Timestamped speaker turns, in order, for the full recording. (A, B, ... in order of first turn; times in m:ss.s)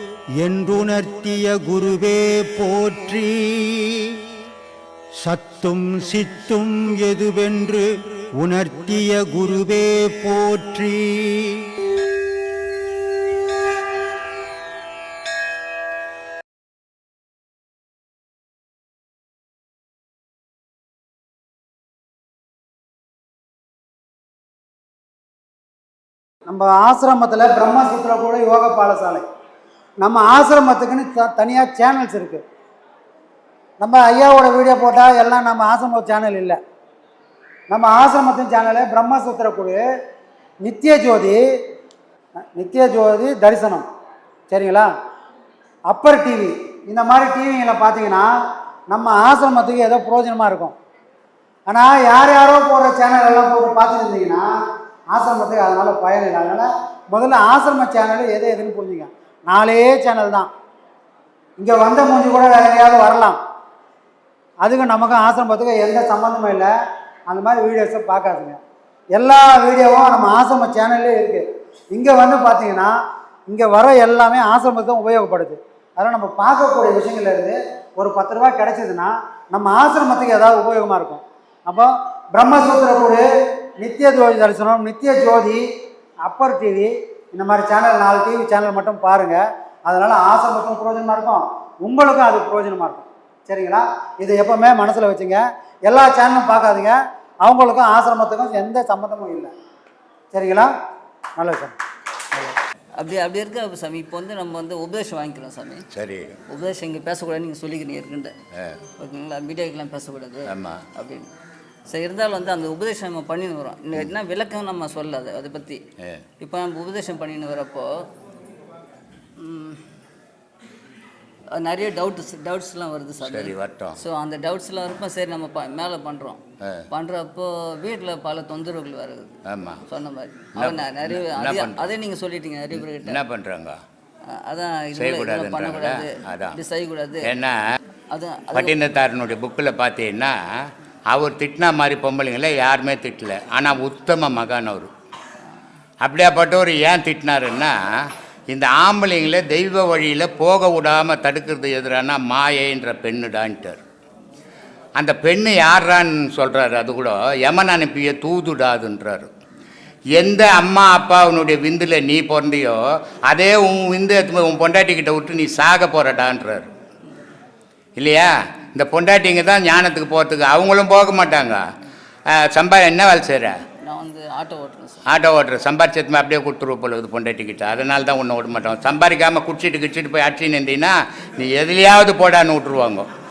0:00.4-0:04.2 A
0:05.2-0:07.8 A
0:08.4-0:11.6 A
0:26.5-0:29.3 B
0:30.0-0:32.4 B
0:33.8-0:36.6 B
0:37.7-0:39.8 B
0:40.6-0:41.4 B
0:42.5-0:43.9 B
0:44.5-0:44.9 B
0:45.9-0:48.3 B
0:48.9-0:50.8 B
0:51.7-0:54.5 B
0:55.1-1:00.5 B
1:01.6-1:03.4 B
1:04.6-1:06.7 B
1:07.3-1:08.6 B
1:09.2-1:13.0 B
1:13.5-1:23.3 B
1:23.8-1:25.7 B
1:26.2-1:39.5 B
1:40.3-1:40.7 B
1:41.4-1:41.8 B
1:43.0-1:45.9 C
1:45.9-1:46.4 D
1:46.5-1:48.4 C
1:49.0-1:51.3 C
1:50.5-1:50.8 D
1:51.9-1:55.8 C
1:56.4-1:58.0 C
1:59.4-1:59.8 C
2:01.6-2:09.4 C
2:03.2-2:04.0 D
2:09.5-2:09.8 D
2:09.9-2:13.2 C
2:10.6-2:11.9 D
2:12.7-2:13.8 D
2:14.3-2:17.3 C
2:15.0-2:16.6 D
2:17.2-2:17.6 D
2:18.1-2:18.7 C
2:18.5-2:24.9 D
2:26.0-2:33.8 D
2:35.0-2:39.3 D
2:40.1-2:46.7 D
2:48.0-2:51.6 D
2:52.3-2:53.6 D
2:53.8-2:55.0 C
2:55.1-3:03.1 D